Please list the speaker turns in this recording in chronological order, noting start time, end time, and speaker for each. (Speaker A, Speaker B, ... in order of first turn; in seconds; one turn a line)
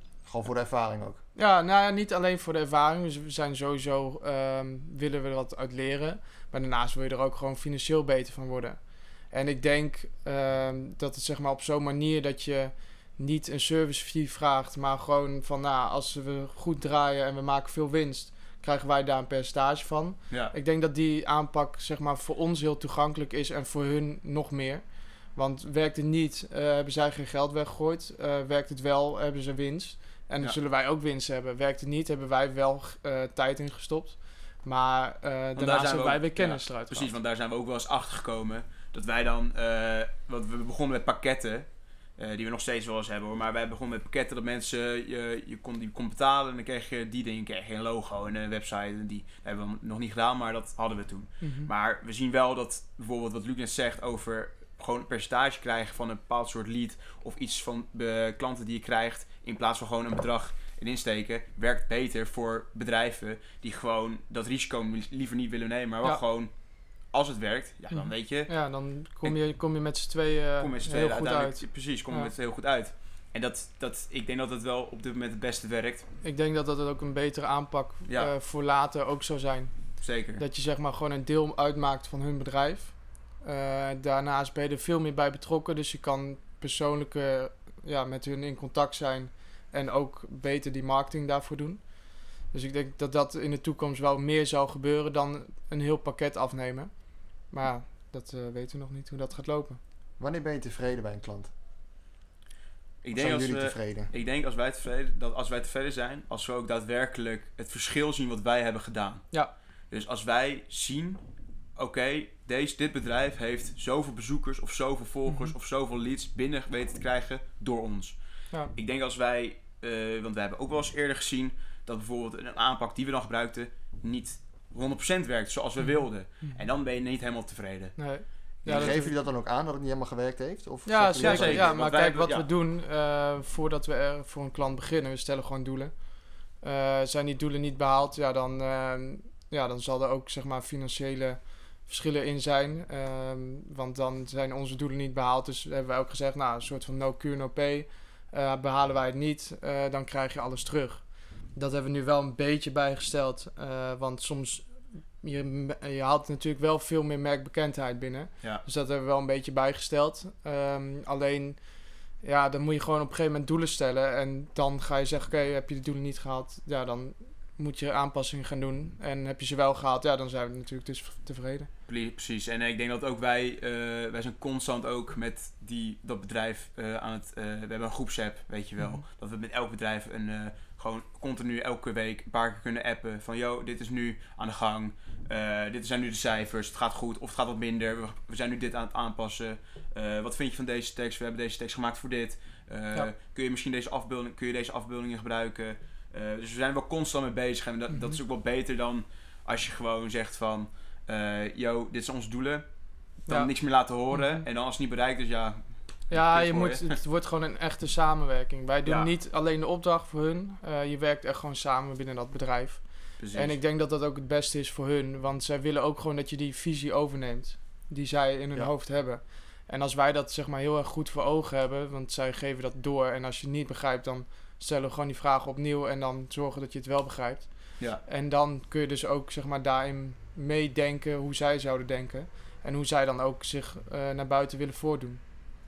Speaker A: 0.2-1.2
Speaker B: 1.3-37.1
Speaker C: 35.5-68.5
Speaker B: 51.4-51.7
Speaker B: 67.9-72.3
Speaker C: 70.6-76.1
Speaker B: 76.2-99.8
Speaker C: 78.1-78.3
Speaker C: 80.0-80.4
Speaker A: 100.2-101.5
Speaker C: 103.0-111.2
Speaker A: 103.1-104.1
Speaker C: 111.8-128.0
Speaker B: 115.3-115.5
Speaker B: 125.8-126.6
Speaker B: 128.0-129.1
Speaker C: 128.5-129.0
Speaker A: 128.7-131.8
Speaker B: 130.8-171.7
Speaker C: 131.2-132.5
Speaker C: 171.9-207.0
Speaker B: 197.9-198.2
Speaker B: 203.3-204.4
Speaker B: 206.1-235.2
Speaker C: 208.8-209.1
Speaker C: 213.2-213.6